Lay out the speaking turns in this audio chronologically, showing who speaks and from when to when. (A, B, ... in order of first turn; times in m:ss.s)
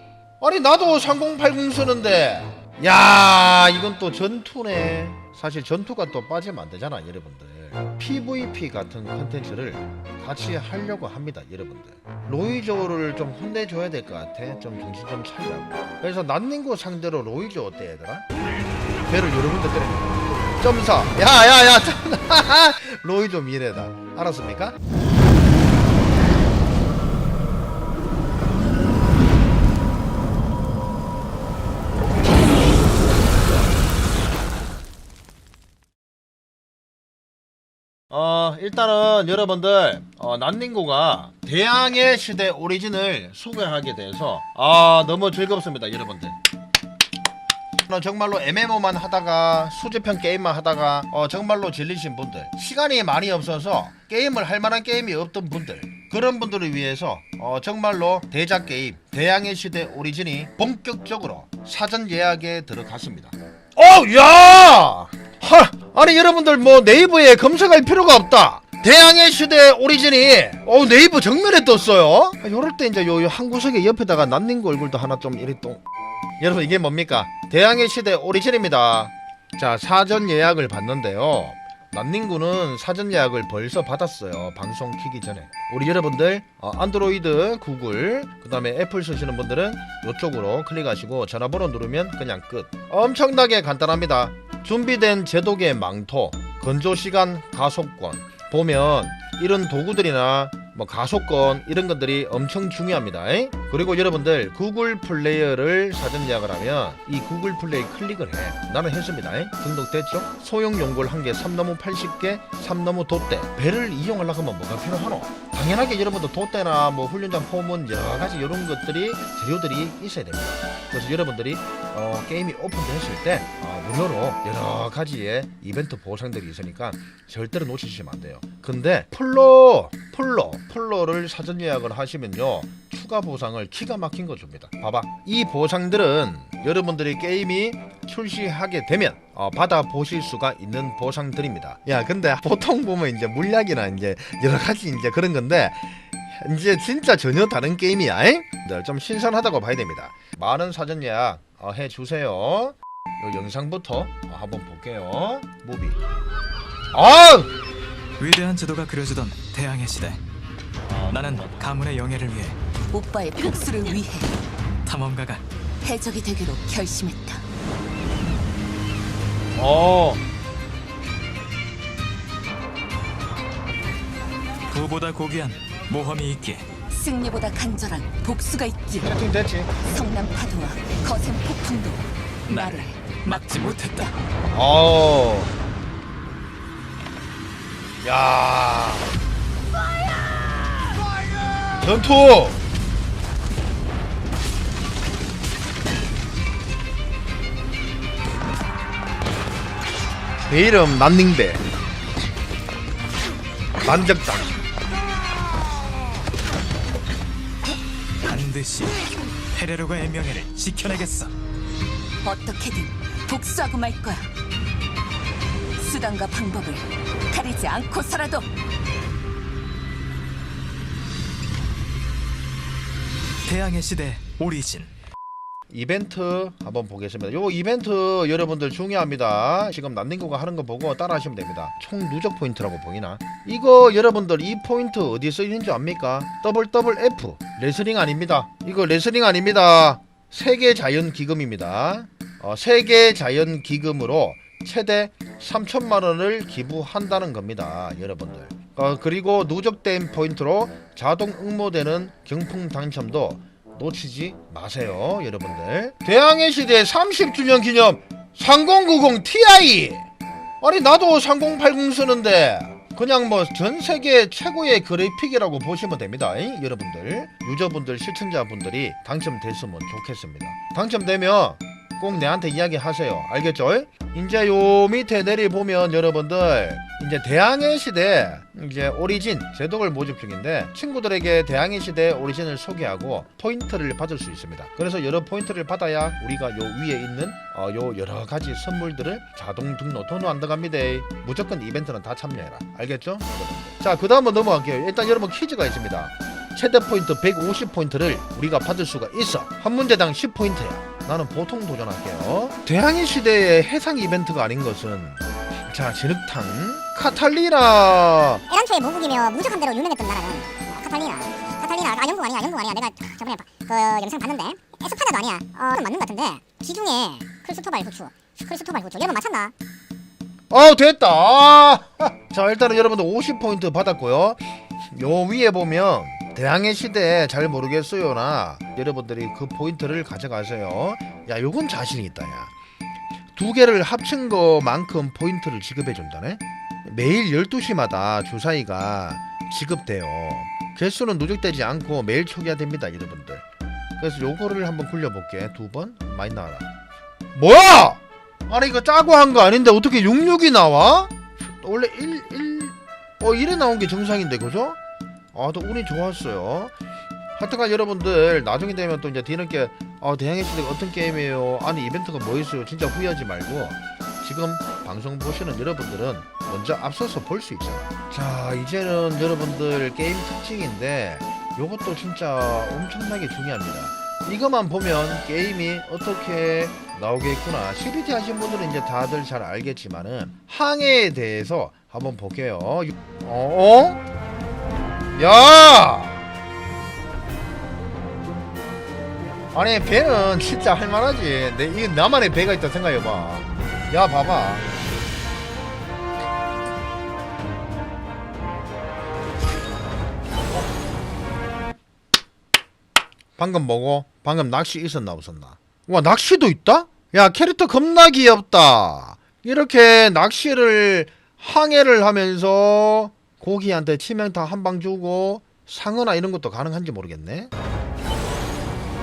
0:00.4-0:18.3 A
0:19.0-0:24.8 A
0:38.1-0:46.4 A
0:47.8-1:15.8 A
1:16.4-2:36.0 A
2:36.9-2:37.5 A
2:38.2-2:40.2 B
2:40.9-2:42.6 B
2:42.9-2:44.3 C
2:44.9-2:45.4 B
2:45.8-2:47.4 C
2:49.6-2:50.2 A
2:54.7-2:56.8 B
2:57.0-2:59.1 C
2:59.0-2:59.7 A
2:59.8-3:02.0 C
3:02.5-3:04.2 B
3:02.6-3:02.9 C
3:04.5-3:05.5 A
3:08.0-3:09.1 A
3:11.7-3:12.6 A
3:20.5-3:21.6 A
3:23.8-3:24.6 A
3:28.2-3:31.3 B
3:32.2-3:34.2 C
3:35.8-3:38.5 C
3:43.5-3:44.9 B
3:45.7-4:20.1 A
4:20.6-5:08.4 A
5:08.5-5:19.5 D
5:20.5-5:32.5 A
5:33.4-5:43.4 A
5:44.0-5:46.7 A
5:47.4-5:54.8 A
5:55.3-5:56.7 A
5:57.4-6:24.0 A
6:25.2-6:26.2 A
6:29.5-6:34.7 A
6:43.4-6:57.5 A